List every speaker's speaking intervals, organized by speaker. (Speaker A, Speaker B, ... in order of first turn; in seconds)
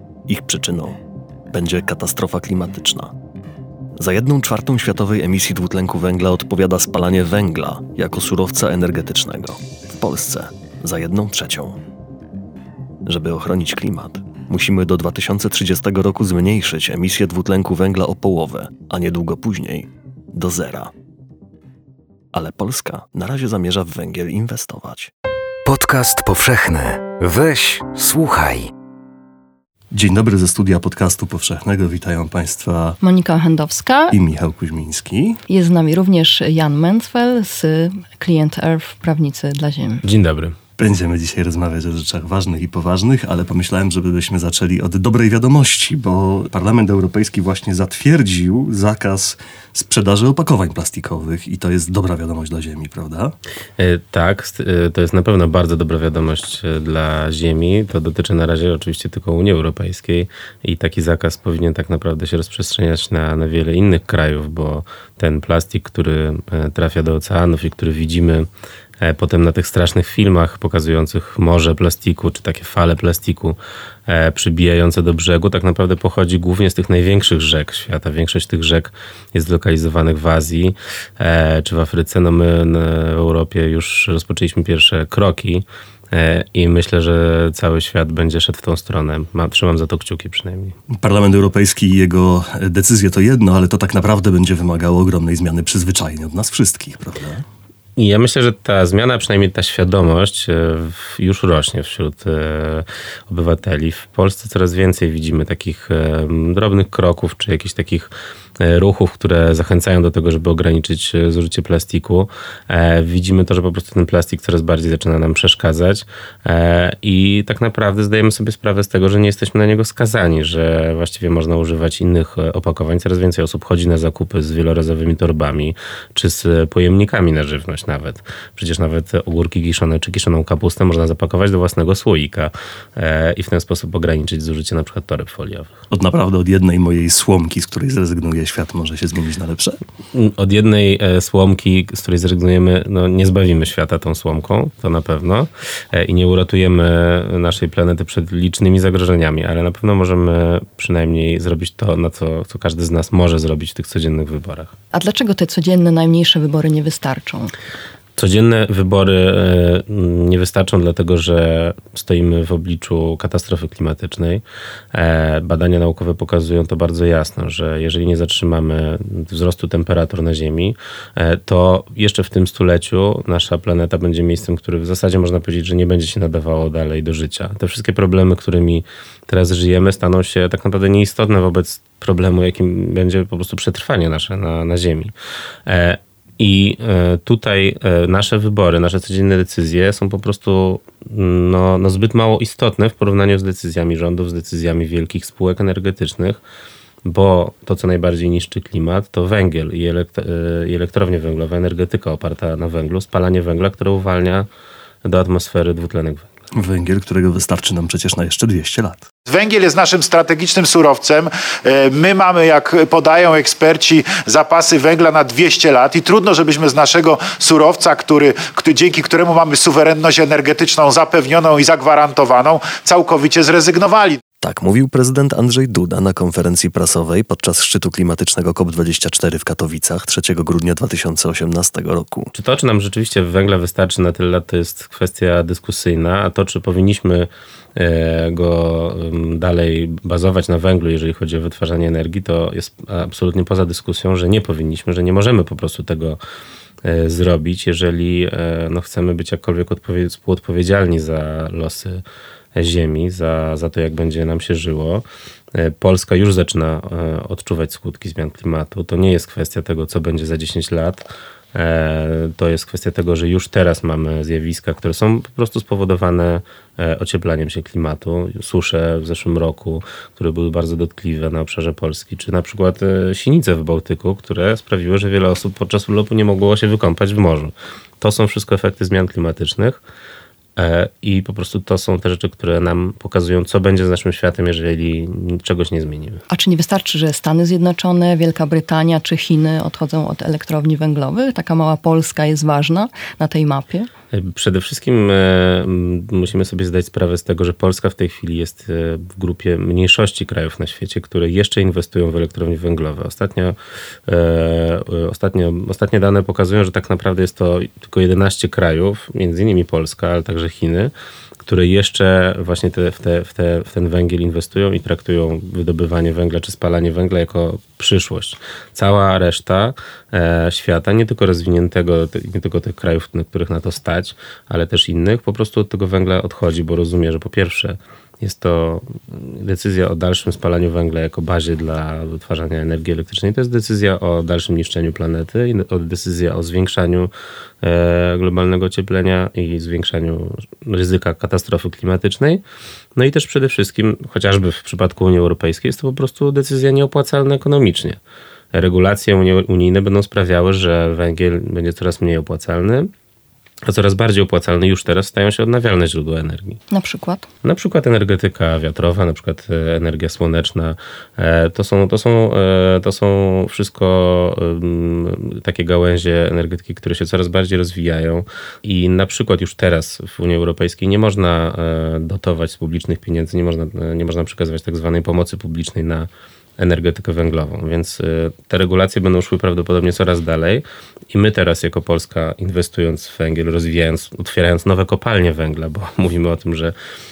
Speaker A: 0.3-1.0, 1.5-3.1, 4.0-11.8, 13.1-20.9, 22.3-25.1, 29.9-33.0, 34.1-35.4, 40.8-53.3, 90.9-97.4, 135.9-139.8, 206.5-209.1, 224.4-232.3
Speaker B: 25.6-28.7
Speaker C: 33.0-34.1, 35.5-40.0, 154.9-157.5, 286.3-293.9, 356.7-357.3
Speaker D: 40.0-40.6, 53.8-68.5, 69.0-90.8, 98.0-135.7, 140.1-154.7, 158.2-185.1, 185.7-196.4, 197.0-204.5, 205.0-206.3, 232.3-246.2, 246.8-252.0, 252.5-279.8, 280.6-286.2, 294.1-303.6, 304.1-337.1, 337.6-342.4, 342.9-348.0, 348.5-352.9, 353.6-356.6, 357.4-386.7
Speaker E: 209.3-224.2